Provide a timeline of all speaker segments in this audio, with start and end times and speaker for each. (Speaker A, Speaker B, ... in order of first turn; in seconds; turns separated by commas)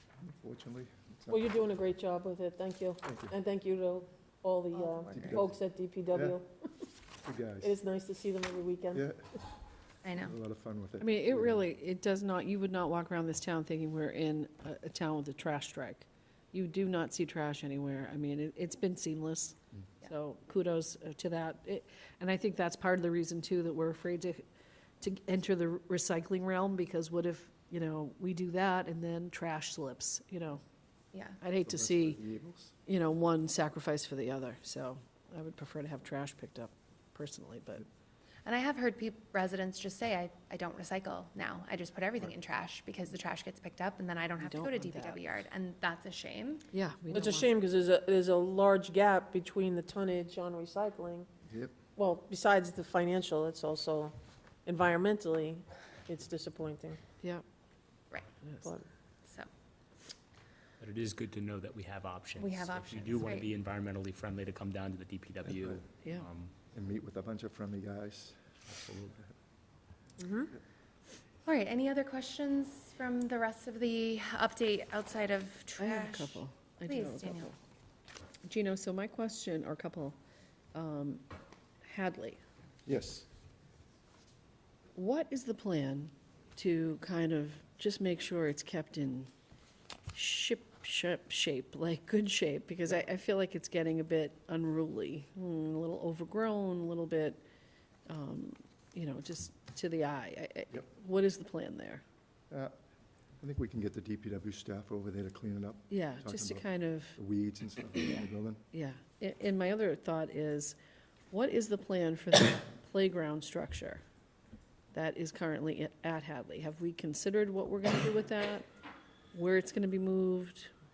Speaker A: 0.2-1.4, Speaker B: 1.3-6.5, Speaker A: 3.0-3.3, Speaker C: 4.7-5.4, Speaker A: 5.1-5.5, Speaker A: 7.2-7.7, Speaker B: 7.6-9.0, Speaker A: 8.9-9.3, Speaker C: 10.0-10.3, Speaker A: 10.1-11.6, Speaker D: 11.0-24.4, Speaker D: 25.0-30.6, Speaker C: 31.1-31.4, Speaker D: 31.4-32.2, Speaker A: 31.5-32.7, Speaker D: 32.9-37.8, Speaker C: 38.4-46.7, Speaker D: 44.4-45.2, Speaker D: 46.7-47.5, Speaker B: 47.1-51.3, Speaker A: 51.5-51.7, Speaker B: 52.0-54.1, Speaker B: 54.6-57.0, Speaker B: 58.6-58.9, Speaker C: 59.2-59.5, Speaker E: 60.8-66.5, Speaker C: 62.4-63.6, Speaker A: 65.4-65.8, Speaker D: 66.0-66.3, Speaker A: 66.7-68.4, Speaker E: 68.8-69.1, Speaker B: 70.2-70.5, Speaker C: 71.4-77.5, Speaker D: 75.8-77.6, Speaker D: 78.5-80.2, Speaker D: 80.7-81.2, Speaker D: 81.8-82.4, Speaker A: 82.8-83.3, Speaker D: 84.9-89.3, Speaker D: 90.1-97.4, Speaker D: 98.1-102.0, Speaker A: 103.4-108.6, Speaker D: 105.9-107.2, Speaker D: 108.7-110.8, Speaker D: 111.3-114.0, Speaker D: 114.9-118.7, Speaker D: 119.3-120.7